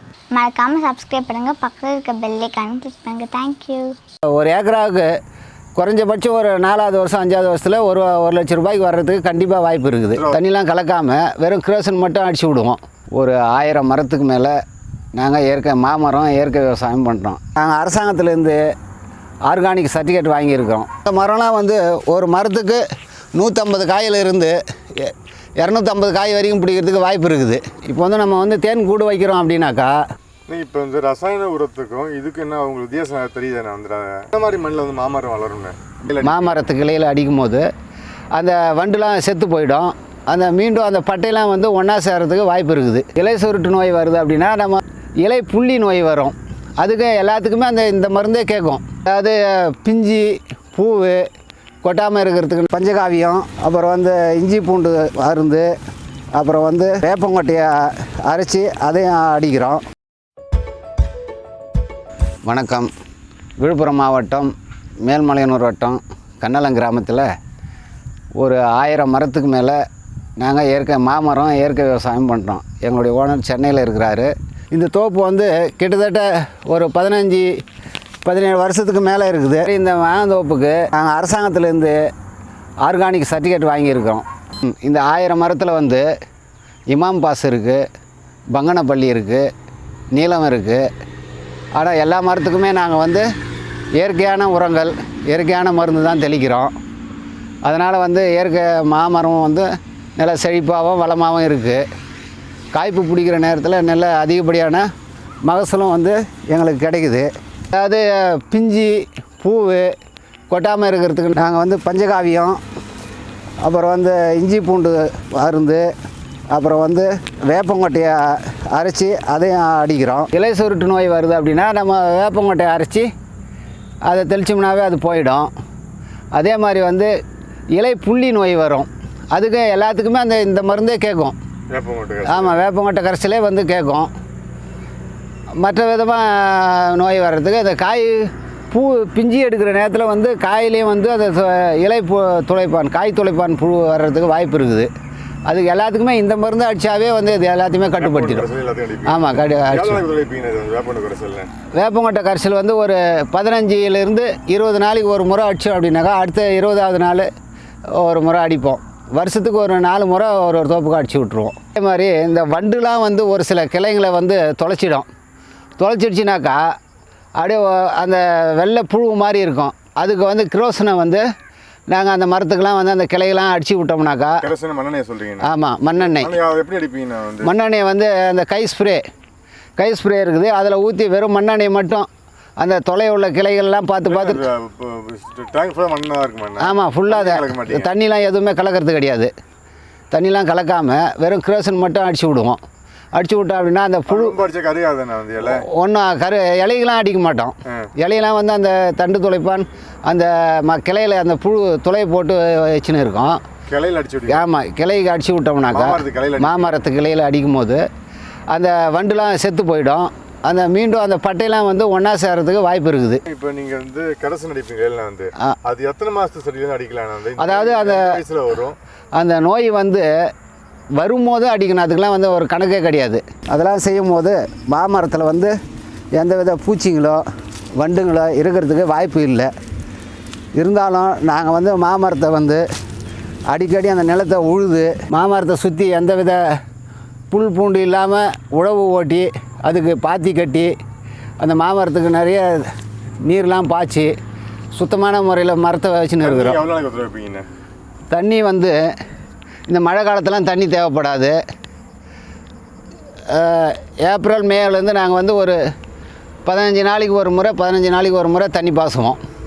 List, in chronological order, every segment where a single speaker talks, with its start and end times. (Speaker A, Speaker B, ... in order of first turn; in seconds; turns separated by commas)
Speaker A: 0.3-4.0, Speaker B: 4.3-5.1, Speaker B: 5.8-14.6, Speaker B: 15.1-18.6, Speaker B: 19.4-29.9, Speaker C: 30.5-36.6, Speaker B: 36.2-37.6, Speaker B: 38.3-51.2, Speaker B: 51.8-55.7, Speaker B: 56.3-59.8, Speaker B: 62.4-62.9, Speaker B: 63.6-64.5, Speaker B: 65.0-67.3, Speaker B: 68.4-69.8, Speaker B: 70.4-77.5, Speaker B: 78.2-82.0, Speaker B: 82.8-86.0, Speaker B: 86.9-87.8, Speaker B: 88.5-89.5, Speaker B: 90.1-90.9, Speaker B: 91.7-93.2, Speaker B: 94.0-96.7, Speaker B: 97.6-101.8, Speaker B: 102.7-104.9, Speaker B: 105.4-109.9, Speaker B: 110.5-112.6, Speaker B: 113.6-115.9, Speaker B: 116.5-123.1, Speaker B: 124.0-125.5, Speaker B: 126.3-127.1, Speaker B: 127.8-131.3, Speaker C: 131.7-132.6, Speaker B: 132.2-134.1, Speaker B: 135.6-144.9, Speaker B: 145.5-148.5, Speaker C: 148.0-151.5, Speaker B: 149.0-150.0, Speaker B: 151.8-157.3, Speaker B: 158.0-165.1, Speaker B: 165.8-166.6, Speaker B: 167.4-171.2, Speaker B: 171.9-174.4, Speaker C: 174.4-177.5, Speaker B: 175.4-176.3, Speaker B: 177.4-179.0, Speaker B: 179.8-182.1, Speaker B: 182.6-184.4, Speaker C: 184.1-187.9, Speaker B: 186.6-189.3, Speaker B: 190.1-192.6, Speaker B: 193.1-194.4, Speaker C: 194.1-195.6, Speaker B: 195.5-203.4, Speaker C: 203.7-204.5, Speaker B: 204.3-207.8, Speaker C: 205.7-206.8, Speaker B: 208.5-213.2, Speaker C: 213.3-218.8, Speaker B: 217.4-218.2, Speaker B: 219.1-220.1, Speaker B: 221.0-225.5, Speaker B: 226.1-227.2, Speaker B: 227.8-229.5, Speaker B: 230.6-232.6, Speaker B: 233.5-236.4, Speaker B: 237.3-240.7, Speaker B: 241.4-242.7, Speaker B: 243.2-244.1, Speaker B: 244.7-246.6, Speaker C: 246.2-247.4, Speaker B: 248.1-248.8, Speaker B: 249.7-251.4, Speaker B: 253.3-255.6, Speaker B: 256.4-259.2